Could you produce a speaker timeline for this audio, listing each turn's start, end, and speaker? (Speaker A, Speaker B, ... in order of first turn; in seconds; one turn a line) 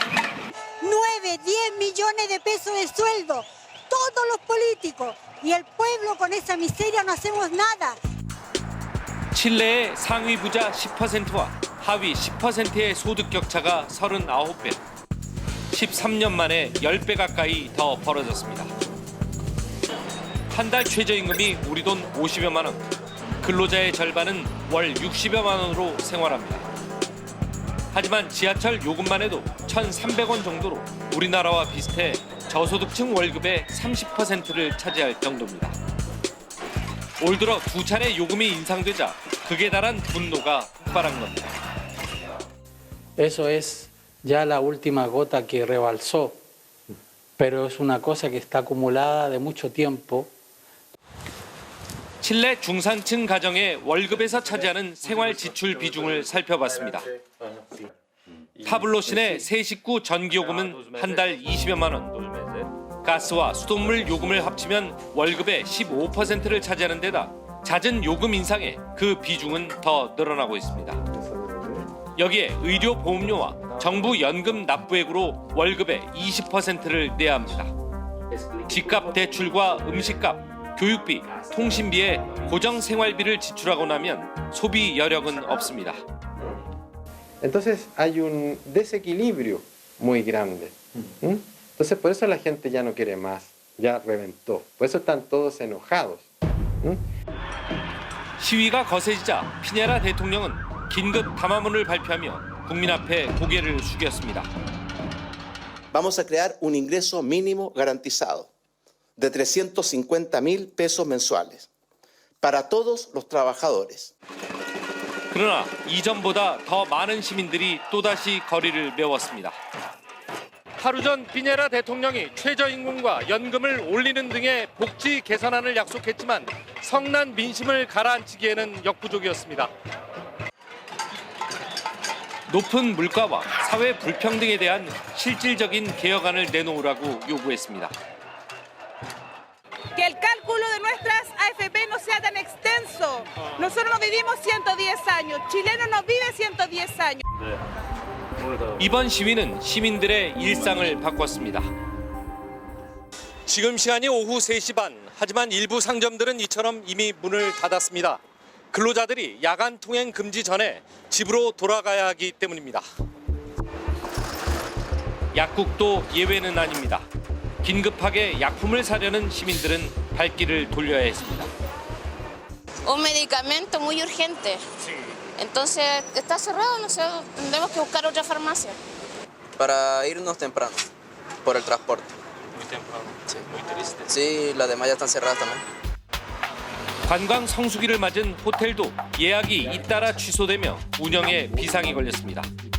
Speaker A: 0.8-8.0
Speaker B: 9.3-14.8
Speaker B: 15.7-18.7
Speaker B: 20.5-22.9
Speaker B: 23.4-26.7
Speaker B: 27.9-35.8
Speaker B: 37.2-41.6
Speaker C: 43.2-46.4
Speaker C: 47.4-50.3
Speaker B: 52.2-57.1
Speaker B: 58.6-71.0
Speaker D: 71.0-71.9
Speaker B: 72.2-77.7
Speaker B: 78.7-86.0
Speaker D: 87.4-96.3
Speaker B: 98.4-104.5
Speaker E: 105.9-108.5
Speaker E: 109.2-111.7
Speaker E: 112.4-114.1
Speaker B: 115.3-119.6
Speaker B: 120.8-129.7
Speaker B: 132.5-137.9
Speaker F: 140.0-147.2
Speaker B: 148.8-151.7
Speaker B: 153.5-158.2
Speaker B: 158.7-162.8
Speaker B: 165.3-167.1
Speaker B: 167.6-171.5
Speaker G: 172.8-174.6
Speaker G: 175.4-178.8
Speaker H: 179.6-180.9
Speaker H: 181.4-182.2
Speaker H: 184.1-185.6
Speaker B: 187.1-192.5